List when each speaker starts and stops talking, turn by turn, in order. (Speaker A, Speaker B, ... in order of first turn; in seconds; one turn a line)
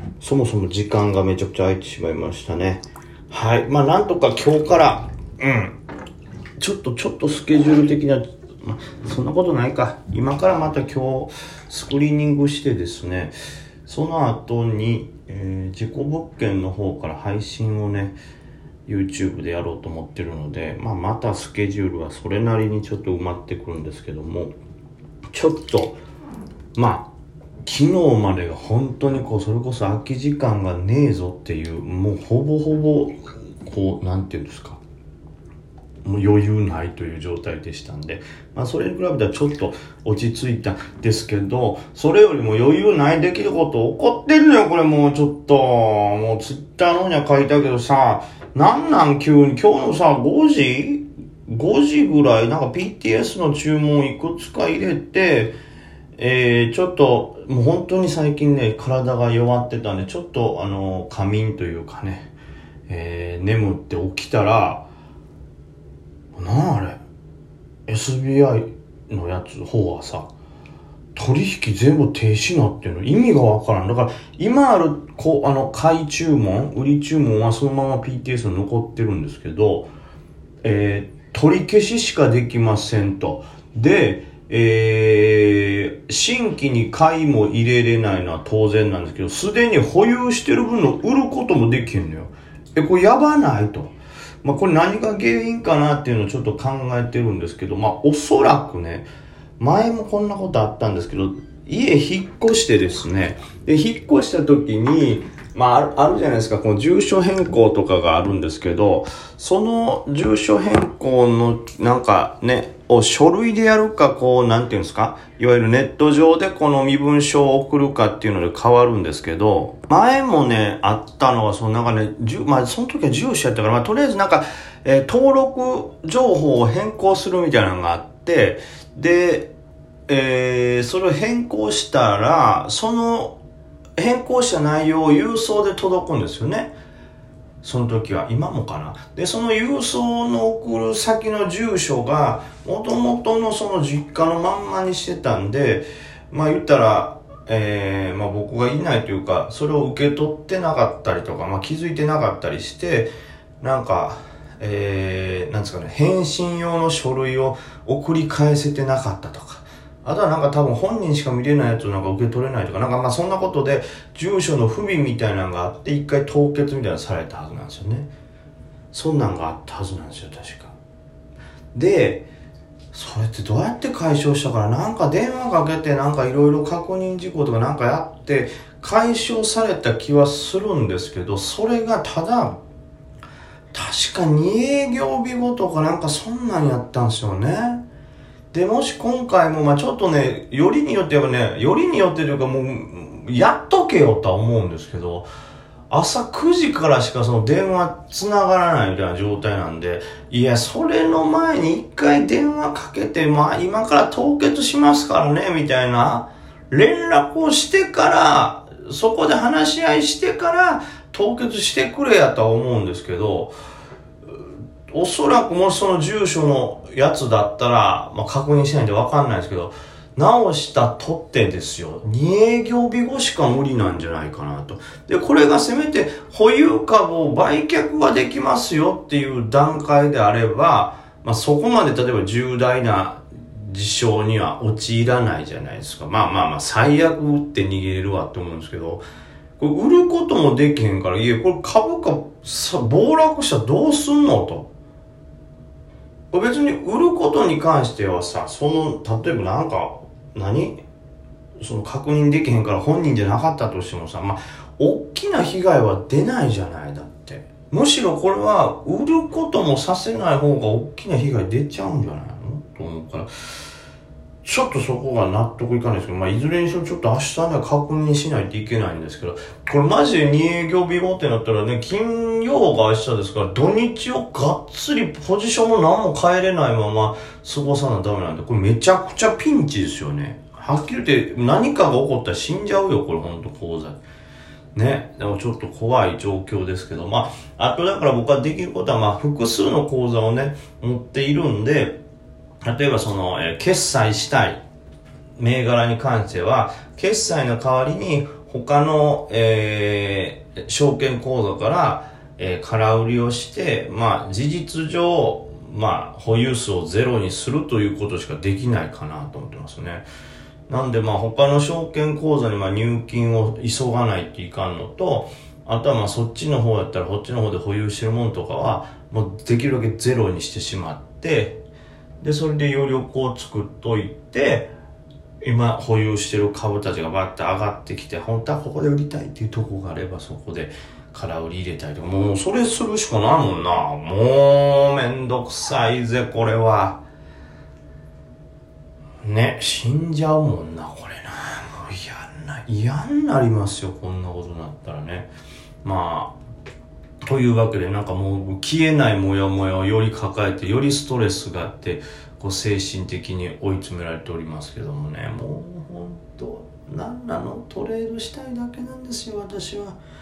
Speaker A: 0.2-5.7
Speaker A: 6.6-18.2
Speaker A: 18.9-24.5
Speaker A: 25.3-26.0
Speaker A: 26.7-27.1
Speaker A: 27.6-34.8
Speaker A: 36.0-55.6
Speaker A: 56.1-62.3
Speaker A: 62.9-64.9
Speaker A: 66.4-67.0
Speaker A: 67.9-70.3
Speaker A: 71.2-79.9
Speaker A: 80.6-99.1
Speaker A: 99.6-129.5
Speaker A: 130.1-133.4
Speaker A: 134.0-136.8
Speaker A: 137.6-168.1
Speaker A: 168.9-170.8
Speaker A: 171.7-172.3
Speaker A: 172.9-182.6
Speaker A: 183.7-187.8
Speaker A: 188.5-195.3
Speaker A: 195.9-213.6
Speaker A: 214.9-239.1
Speaker A: 239.6-244.7
Speaker A: 246.3-250.8
Speaker A: 251.6-263.3
Speaker A: 264.4-284.0
Speaker A: 284.7-292.0
Speaker A: 292.6-294.6
Speaker A: 295.4-310.1
Speaker A: 310.7-321.6
Speaker A: 322.2-324.7
Speaker A: 325.4-337.0
Speaker A: 339.2-345.3
Speaker A: 345.8-346.4
Speaker A: 347.2-360.0